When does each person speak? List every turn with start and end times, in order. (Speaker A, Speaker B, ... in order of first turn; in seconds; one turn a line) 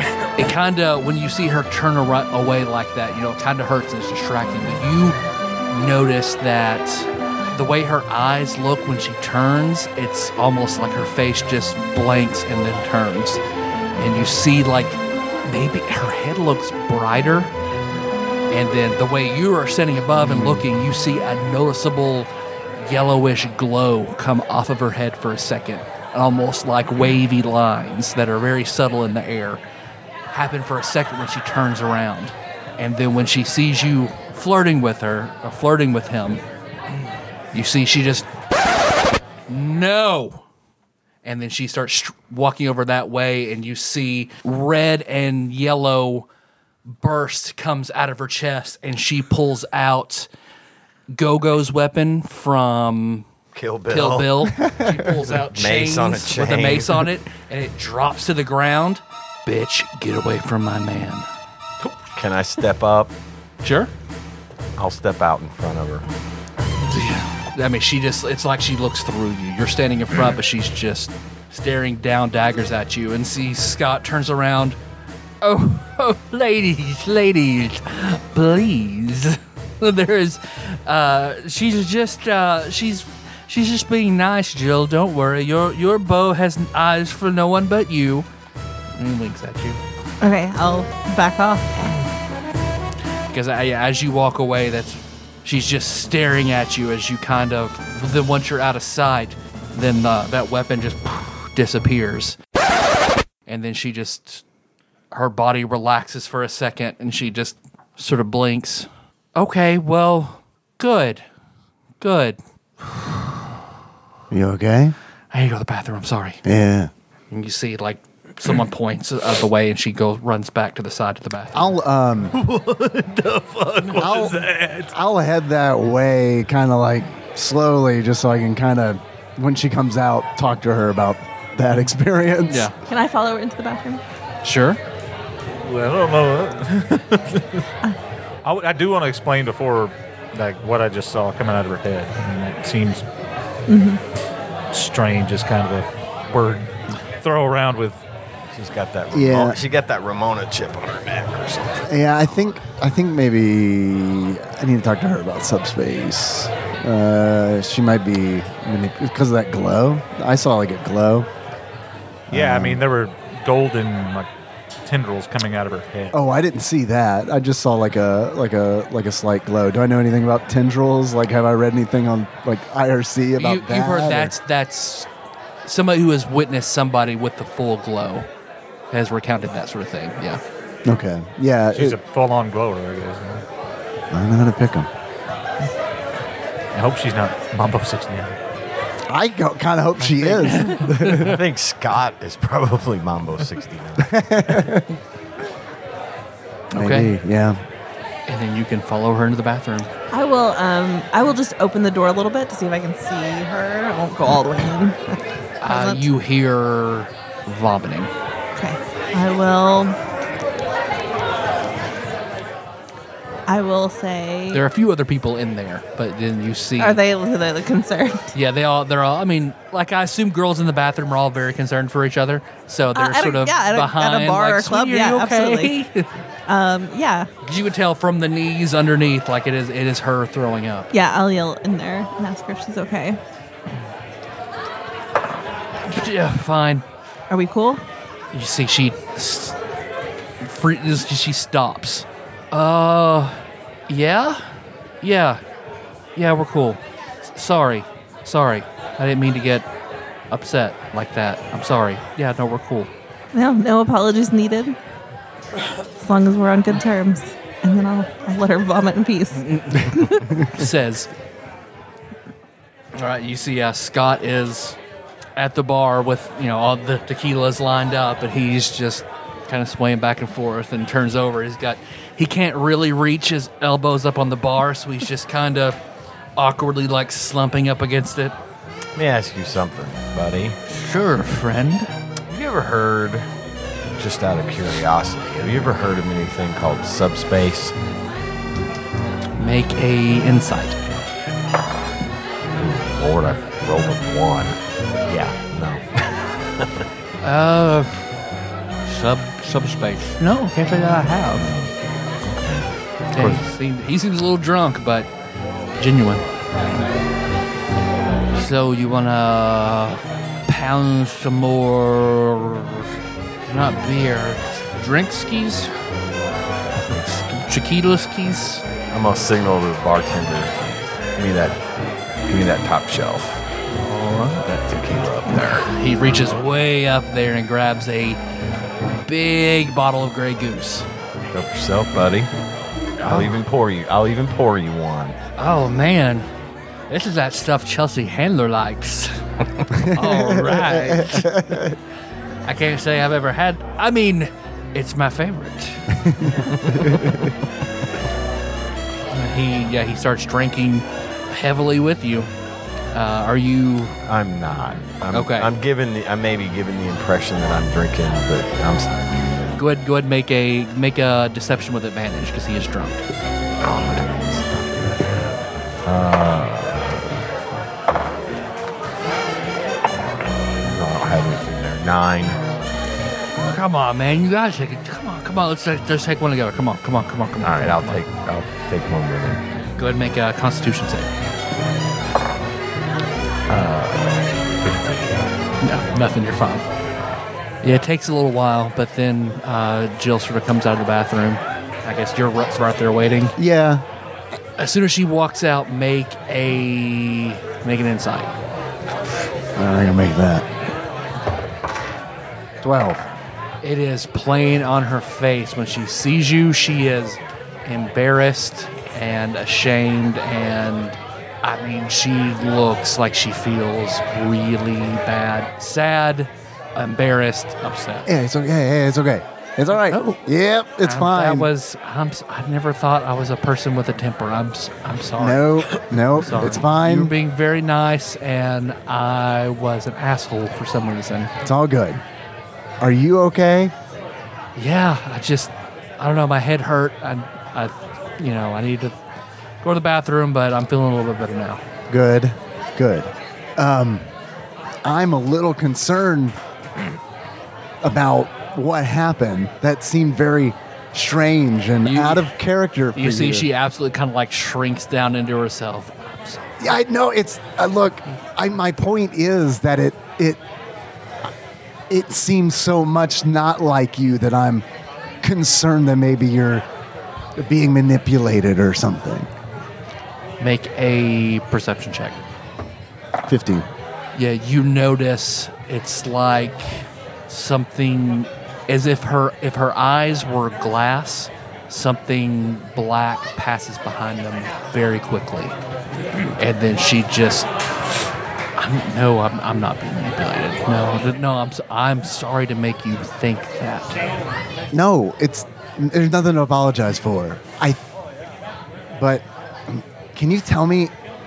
Speaker A: 0.2-5.2
Speaker A: 5.7-13.4
Speaker A: 14.0-17.5
Speaker A: 18.5-29.6
Speaker B: 20.3-20.6
Speaker A: 30.3-36.4
Speaker A: 37.5-38.3
Speaker A: 39.5-40.5
Speaker A: 41.2-46.3
Speaker A: 46.9-50.3
Speaker A: 51.1-53.3
Speaker C: 53.5-54.6
Speaker A: 53.9-61.3
Speaker C: 55.3-57.1
Speaker C: 61.8-63.1
Speaker A: 63.6-63.9
Speaker C: 64.8-66.0
Speaker A: 66.9-74.8
Speaker A: 75.4-88.3
Speaker A: 89.0-89.8
Speaker D: 90.2-92.0
Speaker A: 93.3-102.4
Speaker A: 103.5-104.4
Speaker A: 105.1-111.2
Speaker A: 112.0-113.4
Speaker B: 114.3-115.0
Speaker A: 115.3-116.4
Speaker B: 116.4-116.9
Speaker A: 117.3-121.8
Speaker B: 121.5-122.3
Speaker E: 122.3-124.9
Speaker A: 123.8-124.2
Speaker B: 124.0-132.7
Speaker A: 132.5-132.7
Speaker D: 132.9-134.0
Speaker A: 134.4-134.8
Speaker E: 135.6-137.7
Speaker E: 138.4-143.1
Speaker D: 143.7-144.0
Speaker E: 144.7-148.0
Speaker C: 148.5-151.9
Speaker B: 149.1-149.6
Speaker B: 151.9-161.3
Speaker B: 162.3-162.8
Speaker E: 162.3-164.3
Speaker E: 164.8-166.1
Speaker B: 166.1-174.3
Speaker A: 173.4-175.1
Speaker A: 175.7-178.3
Speaker A: 178.9-180.4
Speaker B: 180.9-182.0
Speaker E: 181.7-183.5
Speaker B: 184.1-184.9
Speaker E: 186.7-188.4
Speaker B: 189.1-191.4
Speaker A: 190.2-191.3
Speaker C: 191.0-194.7
Speaker B: 194.0-194.9
Speaker A: 196.7-197.1
Speaker B: 196.7-197.6
Speaker A: 198.3-199.9
Speaker D: 200.1-206.1
Speaker A: 205.6-208.1
Speaker D: 208.6-210.0
Speaker D: 213.5-214.6
Speaker A: 214.5-217.0
Speaker D: 216.8-218.3
Speaker A: 218.3-226.1
Speaker D: 222.9-225.8
Speaker D: 226.5-227.3
Speaker A: 227.4-230.9
Speaker D: 230.9-233.2
Speaker A: 235.8-236.8
Speaker D: 237.3-237.8
Speaker A: 238.3-239.6
Speaker A: 240.4-245.4
Speaker A: 246.2-249.7
Speaker A: 250.3-252.9
Speaker D: 253.3-254.8
Speaker D: 256.0-260.5
Speaker A: 259.3-261.1
Speaker A: 263.0-264.8
Speaker A: 265.4-275.8
Speaker A: 276.4-278.4
Speaker C: 279.0-280.6
Speaker A: 280.7-281.9
Speaker C: 282.3-283.3
Speaker C: 284.0-287.7
Speaker A: 289.4-290.8
Speaker C: 292.5-294.6
Speaker C: 295.1-296.8
Speaker A: 297.2-298.1
Speaker A: 298.8-301.5
Speaker C: 301.4-301.7
Speaker C: 302.3-303.4
Speaker A: 303.1-305.1
Speaker A: 305.8-306.2
Speaker A: 308.3-312.9
Speaker A: 313.5-315.7
Speaker A: 316.8-318.6
Speaker C: 318.9-320.6
Speaker C: 321.2-321.6
Speaker C: 322.3-323.4
Speaker A: 323.9-324.4
Speaker C: 324.4-325.7
Speaker A: 325.4-328.2
Speaker A: 329.0-330.9
Speaker C: 331.3-332.3
Speaker A: 333.0-333.4
Speaker C: 333.0-335.2
Speaker A: 335.4-336.3
Speaker A: 336.9-341.6
Speaker B: 339.7-341.8
Speaker A: 342.5-346.0
Speaker B: 346.0-347.1
Speaker A: 349.1-352.3
Speaker A: 352.9-354.0
Speaker C: 354.1-358.9
Speaker A: 355.1-355.5
Speaker A: 359.6-363.0
Speaker C: 363.6-365.3
Speaker C: 365.9-367.2
Speaker C: 370.7-372.4
Speaker A: 373.4-378.0
Speaker C: 377.4-379.4
Speaker A: 379.8-381.1
Speaker C: 383.5-385.2
Speaker A: 385.6-386.7
Speaker A: 387.6-393.4
Speaker B: 393.4-393.8
Speaker A: 394.6-398.4
Speaker B: 399.6-400.5
Speaker B: 402.6-403.0
Speaker A: 403.6-418.1
Speaker B: 418.1-421.5
Speaker A: 419.8-420.2
Speaker A: 420.8-431.3
Speaker B: 425.2-427.1
Speaker B: 431.4-432.0
Speaker B: 432.8-433.7
Speaker A: 434.6-439.0
Speaker A: 439.6-441.6
Speaker B: 441.9-444.1
Speaker B: 444.8-446.4
Speaker B: 447.8-453.5
Speaker A: 451.9-452.3
Speaker A: 452.9-456.7
Speaker B: 456.6-460.4
Speaker B: 461.9-464.7
Speaker B: 465.2-466.7
Speaker B: 467.4-469.3
Speaker A: 470.4-472.2
Speaker B: 473.3-473.7
Speaker A: 474.1-485.6
Speaker A: 486.4-487.5
Speaker A: 488.6-494.0
Speaker B: 494.7-497.8
Speaker B: 498.9-500.9